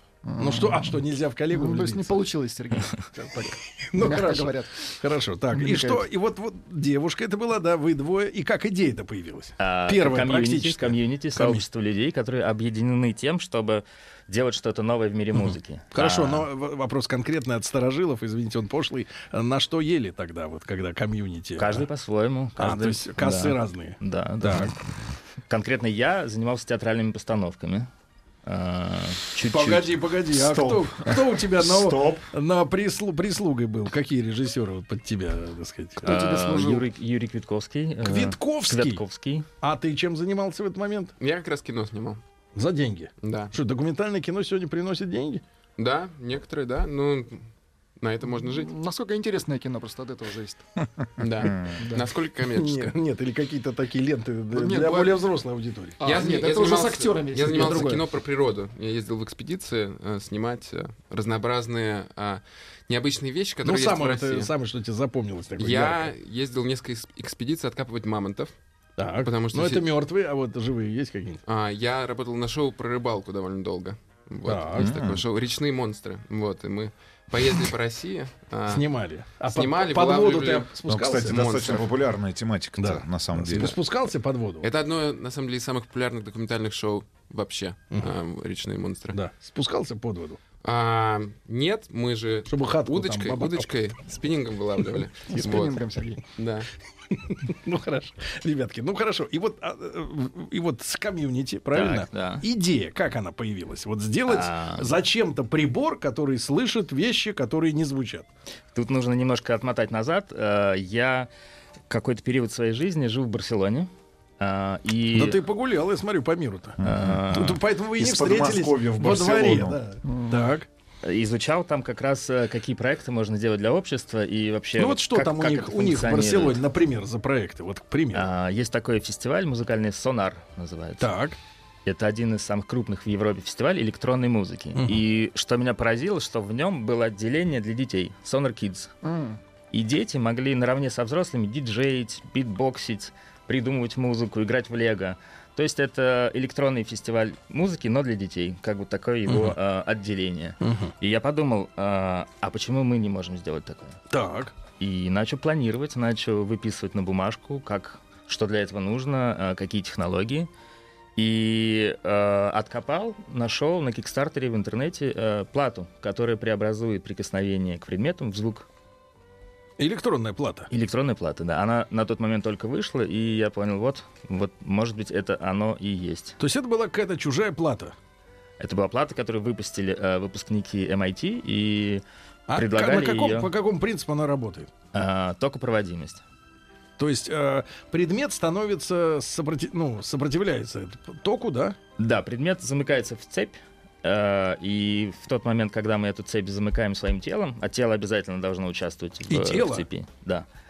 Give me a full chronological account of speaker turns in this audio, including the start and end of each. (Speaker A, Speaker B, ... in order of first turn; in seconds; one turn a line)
Speaker A: 0.2-4.9
Speaker B: 0.4-2.2
Speaker B: 3.1-11.7
Speaker A: 5.5-6.0
Speaker C: 9.6-16.5
Speaker B: 15.9-21.9
Speaker C: 21.6-24.8
Speaker B: 22.6-24.7
Speaker C: 25.5-27.9
Speaker C: 28.4-30.0
Speaker B: 29.5-36.1
Speaker D: 30.3-32.3
Speaker A: 36.0-36.8
Speaker C: 36.0-39.5
Speaker B: 38.0-39.0
Speaker B: 39.6-41.1
Speaker E: 41.2-42.2
Speaker B: 42.5-45.4
Speaker E: 43.2-43.5
Speaker E: 45.8-47.5
Speaker E: 48.0-48.7
Speaker A: 48.3-50.6
Speaker E: 51.2-52.9
Speaker D: 51.4-51.8
Speaker A: 51.8-52.1
Speaker B: 52.5-56.0
Speaker A: 54.5-55.2
Speaker A: 56.0-58.0
Speaker E: 56.0-64.5
Speaker B: 63.6-66.1
Speaker E: 65.6-68.5
Speaker B: 69.0-71.4
Speaker E: 69.2-69.8
Speaker E: 71.5-78.8
Speaker B: 74.5-74.9
Speaker D: 74.8-75.2
Speaker B: 78.7-81.5
Speaker E: 79.5-81.9
Speaker D: 80.9-83.8
Speaker B: 82.8-84.7
Speaker E: 84.6-89.2
Speaker B: 89.1-90.4
Speaker E: 90.6-95.8
Speaker B: 92.5-93.7
Speaker A: 95.3-96.2
Speaker E: 96.3-96.7
Speaker B: 97.1-108.3
Speaker C: 101.7-102.5
Speaker C: 104.3-105.0
Speaker C: 108.7-111.3
Speaker C: 111.9-115.4
Speaker B: 115.1-116.8
Speaker D: 116.8-117.2
Speaker C: 116.8-117.6
Speaker B: 117.3-120.7
Speaker D: 118.0-119.8
Speaker A: 120.0-120.4
Speaker C: 121.0-126.6
Speaker B: 124.8-128.2
Speaker C: 128.1-131.1
Speaker B: 131.0-131.4
Speaker C: 131.8-138.9
Speaker B: 134.8-135.0
Speaker A: 139.0-139.4
Speaker C: 139.7-154.0
Speaker B: 149.3-149.5
Speaker B: 150.6-150.9
Speaker B: 154.1-154.5
Speaker C: 154.8-160.5
Speaker C: 161.2-168.7
Speaker B: 169.8-170.7
Speaker C: 170.7-176.4
Speaker B: 176.4-177.9
Speaker C: 178.6-183.5
Speaker B: 182.5-184.7
Speaker C: 184.9-186.2
Speaker B: 187.0-191.8
Speaker C: 192.0-200.4
Speaker B: 199.3-199.8